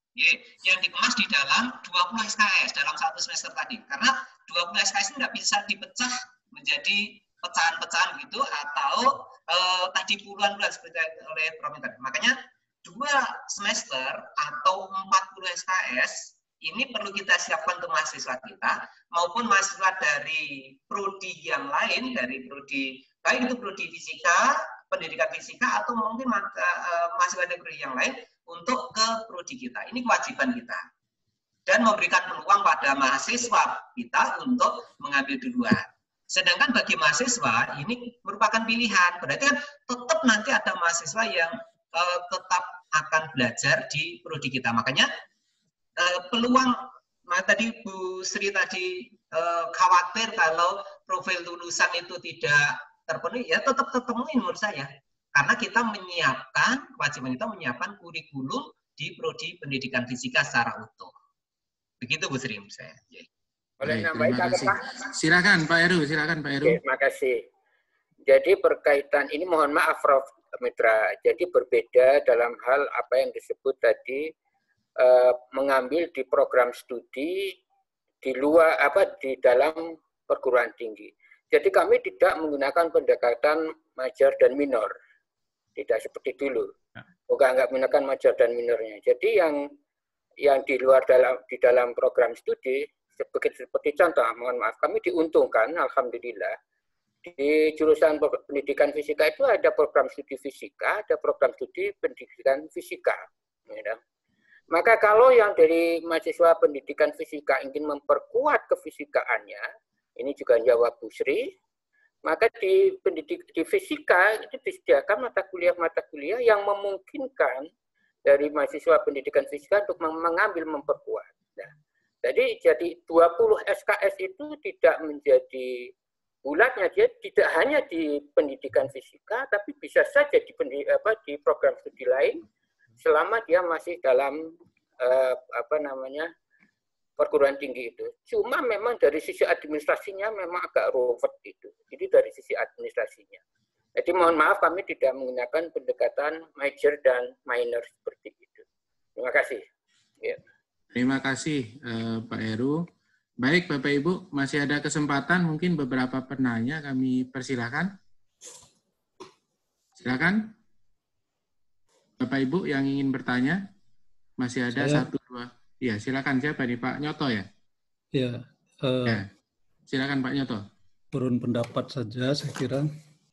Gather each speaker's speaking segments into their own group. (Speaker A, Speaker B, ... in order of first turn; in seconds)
Speaker A: 0.1-30.9, 31.6-45.1, 46.0-61.1, 62.0-63.3
Speaker B: 63.8-64.9, 66.6-67.4, 68.2-74.3, 75.0-77.5, 78.2-84.9, 85.8-86.7, 87.3-89.6, 90.4-96.6, 97.2-104.0, 104.7-109.7, 110.2-111.5, 112.2-117.7, 118.2-121.7, 122.2-125.9, 126.4-132.4, 133.0-136.3, 137.2-143.4, 143.9-148.6, 149.2-149.6
Speaker C: 63.8-66.8, 150.9-152.8, 153.4-157.9, 160.0-160.5, 162.2-163.6, 164.4-167.5, 169.9-170.6
Speaker D: 164.8-165.0, 168.1-169.2, 171.1-172.8